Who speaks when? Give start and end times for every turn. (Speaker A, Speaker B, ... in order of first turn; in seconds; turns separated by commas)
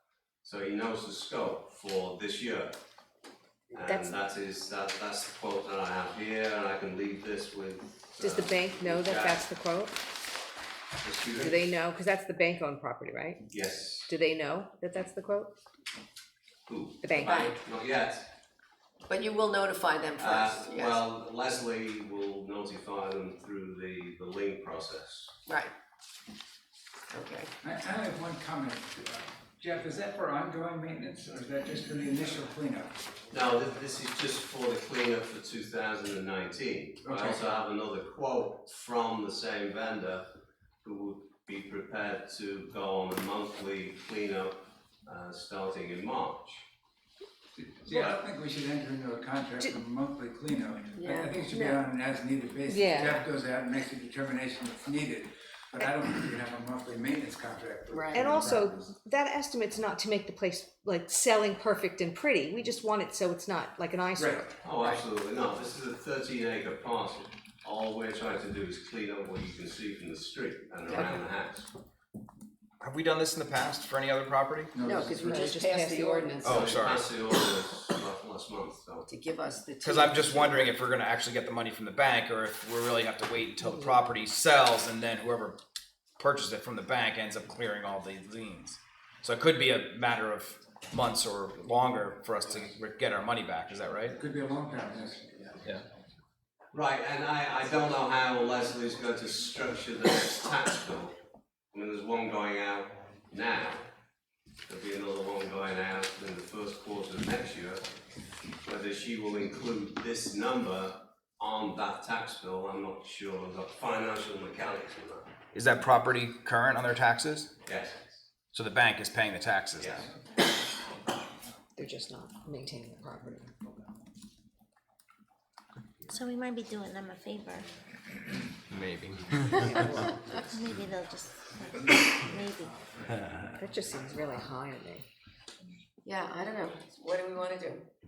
Speaker A: 0.4-2.7, Speaker A: 3.7-9.4, Speaker B: 3.7-4.2, Speaker B: 8.2-10.0, Speaker A: 11.0-11.7, Speaker B: 11.4-13.5, Speaker A: 13.5-14.1, Speaker B: 14.1-15.5, Speaker A: 16.7-18.3, Speaker B: 17.0-17.4, Speaker C: 17.2-17.6, Speaker C: 19.1-21.0, Speaker A: 20.2-25.3, Speaker C: 25.5-25.7, Speaker C: 27.1-27.5, Speaker D: 27.6-33.0, Speaker A: 33.3-40.3, Speaker D: 37.0-37.4, Speaker A: 40.8-46.6, Speaker D: 47.6-58.9, Speaker C: 51.0-51.8, Speaker B: 52.7-53.2, Speaker C: 57.9-58.3, Speaker B: 58.1-64.5, Speaker D: 64.2-64.5, Speaker A: 64.6-71.7, Speaker C: 70.9-71.1, Speaker E: 72.8-74.7, Speaker D: 74.7-75.4, Speaker C: 74.8-76.7, Speaker B: 75.1-76.5, Speaker E: 76.4-77.1, Speaker A: 76.4-79.1, Speaker C: 79.1-80.7, Speaker E: 79.8-85.6, Speaker B: 83.6-83.9, Speaker E: 86.2-94.2, Speaker D: 94.1-95.4, Speaker A: 96.7-101.1, Speaker A: 101.7-103.8, Speaker A: 104.7-107.8, Speaker A: 108.6-115.3, Speaker E: 115.5-117.5, Speaker A: 117.7-118.0, Speaker E: 118.5-120.1, Speaker A: 119.8-120.1, Speaker B: 121.8-123.5, Speaker F: 126.1-127.7, Speaker E: 128.7-130.1, Speaker B: 129.6-130.1, Speaker F: 130.5-132.7, Speaker B: 133.6-135.0, Speaker C: 136.0-137.8